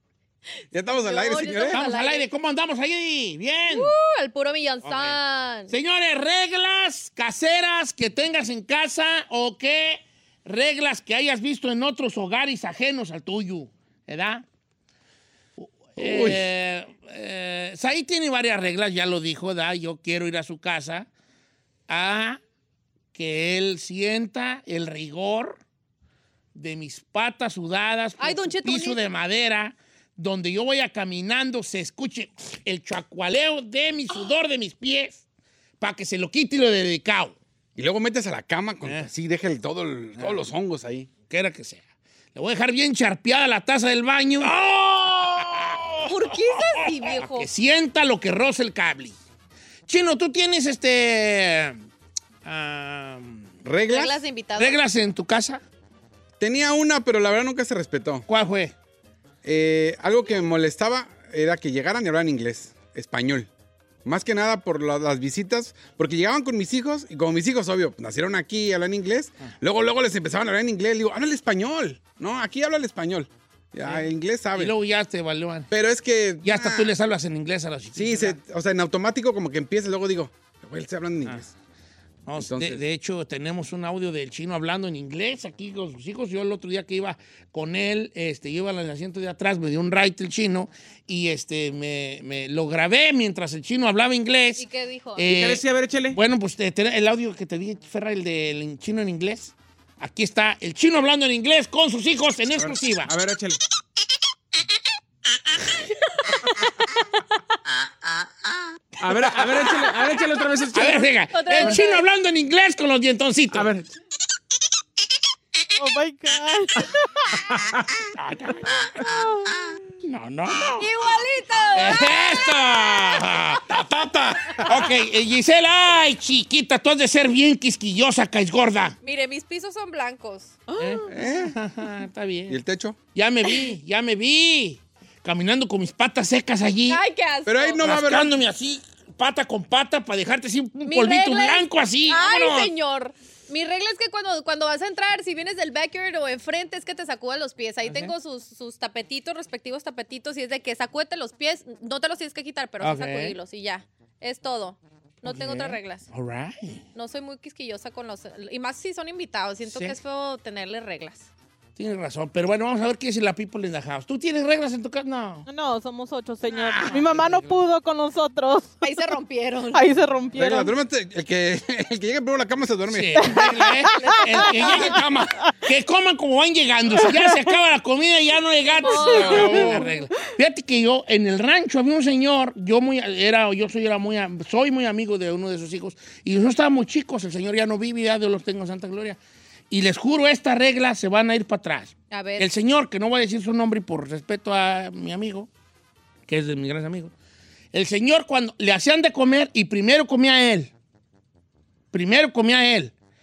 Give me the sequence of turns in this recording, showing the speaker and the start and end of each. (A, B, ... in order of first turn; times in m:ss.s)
0:00.7-0:01.8 A
0:01.0-0:02.3 B
0:01.7-0:03.9 C
0:03.7-0:05.7 B
0:04.8-0:05.2 C
0:05.7-0:14.4 C
0:15.6-0:21.1 C
0:16.0-0:16.4 A
0:21.9-0:22.4 C
0:23.1-0:25.6 C
0:26.6-0:35.2 C
0:28.2-0:29.0 B
0:35.8-0:37.4 C
0:37.8-0:41.1 A
0:38.8-0:39.1 C
0:40.2-0:40.4 C
0:41.3-0:41.8 C
0:42.4-0:49.2 C
0:44.6-0:45.9 A
0:46.1-0:47.5 B
0:49.9-0:51.8 C
0:52.4-0:53.5 C
0:53.6-0:54.2 A
0:53.9-0:54.8 B
0:54.6-0:55.6 C
0:56.4-0:58.2 A
0:58.3-0:58.7 C
0:59.4-1:03.5 A
1:04.0-1:14.7 A
1:13.8-1:15.7 C
1:15.7-1:16.9 A
1:16.4-1:18.4 C
1:18.0-1:21.5 A
1:22.3-1:43.1 C
1:22.4-1:22.8 A
1:34.6-1:35.2 B
1:35.2-1:36.2 D
1:42.6-1:43.6 D
1:49.0-1:51.1 D
1:49.1-1:49.8 C
1:50.7-1:53.7 C
1:51.3-1:52.1 B
1:53.5-1:53.9 D
1:55.8-1:57.3 E
1:57.4-1:57.9 D
1:58.2-1:58.9 C
2:00.0-2:00.9 C
2:00.8-2:02.3 B
2:01.8-2:03.6 C
2:03.7-2:04.9 A
2:04.6-2:09.0 C
2:09.0-2:10.6 B
2:10.7-2:11.1 E
2:10.8-2:12.6 C
2:11.1-2:11.5 A
2:12.5-2:13.0 A
2:13.1-2:17.0 C
2:16.9-2:17.8 B
2:17.5-2:18.4 A
2:17.8-2:22.7 C
2:20.9-2:36.0 B
2:27.8-2:28.1 C
2:32.8-2:33.4 C
2:35.2-2:36.8 C
2:37.0-2:41.3 B
2:39.7-2:40.0 C
2:41.8-2:45.5 C
2:45.5-2:48.8 E
2:46.5-2:47.6 C
2:48.8-2:49.9 B
2:49.7-2:50.7 E
2:50.4-2:53.4 A
2:52.9-2:55.0 C
2:53.2-2:54.6 E
2:53.9-2:54.9 B
2:54.7-2:55.4 A
2:55.6-3:09.2 C
2:57.0-2:57.4 E
2:58.8-2:59.8 B
2:59.0-3:00.0 E
2:59.1-2:59.7 A
3:09.7-3:15.5 C
3:12.1-3:12.5 B
3:16.3-3:17.1 C
3:17.7-3:20.7 C
3:21.9-3:22.9 C